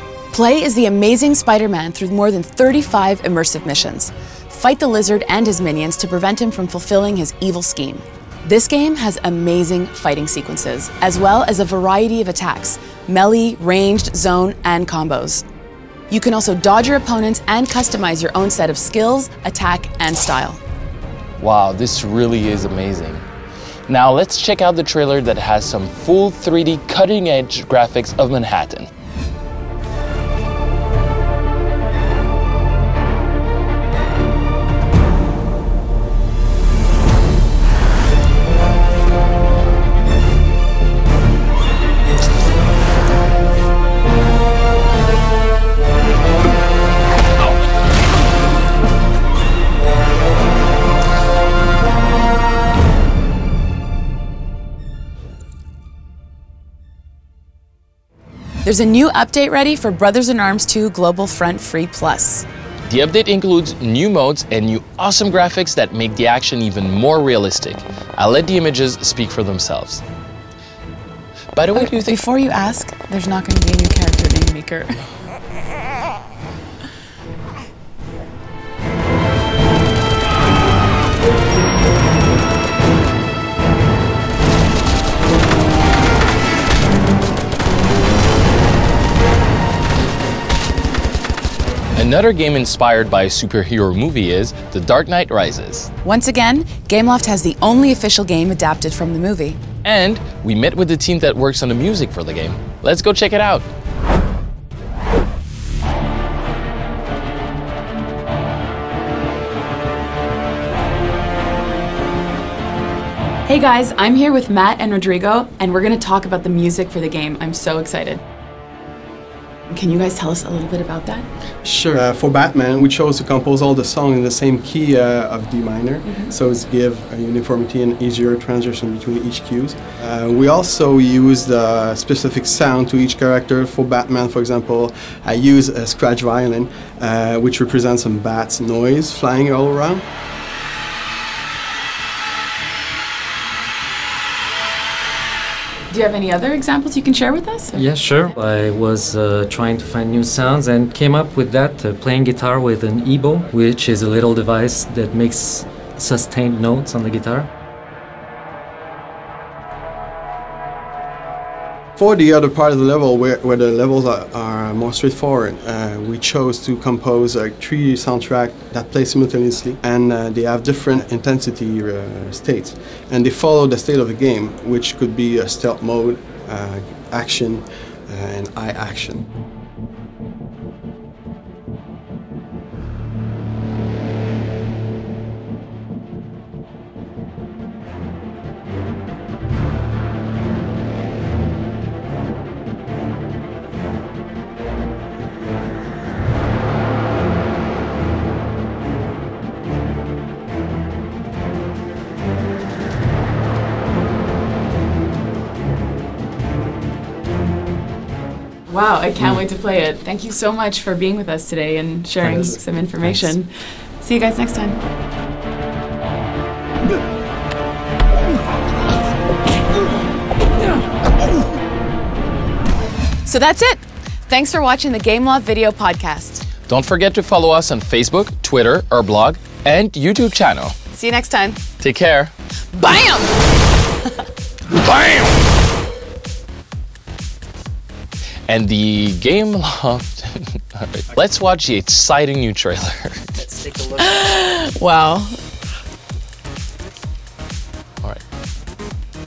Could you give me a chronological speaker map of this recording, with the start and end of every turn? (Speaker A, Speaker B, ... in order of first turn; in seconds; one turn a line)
Speaker A: 0.3-15.4
Speaker A: 16.1-20.6
Speaker B: 21.4-23.2
Speaker B: 23.9-28.9
Speaker A: 58.6-62.5
Speaker B: 62.9-70.0
Speaker B: 71.5-72.2
Speaker A: 71.8-75.0
Speaker B: 92.0-95.9
Speaker A: 96.0-99.6
Speaker B: 99.8-103.7
Speaker A: 113.5-118.2
Speaker A: 119.7-121.3
Speaker C: 121.6-140.0
Speaker A: 126.0-126.3
Speaker A: 145.9-147.8
Speaker D: 147.7-157.5
Speaker C: 162.0-179.2
Speaker A: 208.7-214.8
Speaker A: 223.2-226.4
Speaker B: 226.7-230.8
Speaker A: 230.9-231.6
Speaker B: 231.8-232.3
Speaker A: 232.7-233.4
Speaker B: 234.7-235.4
Speaker B: 238.5-243.3
Speaker A: 244.0-245.4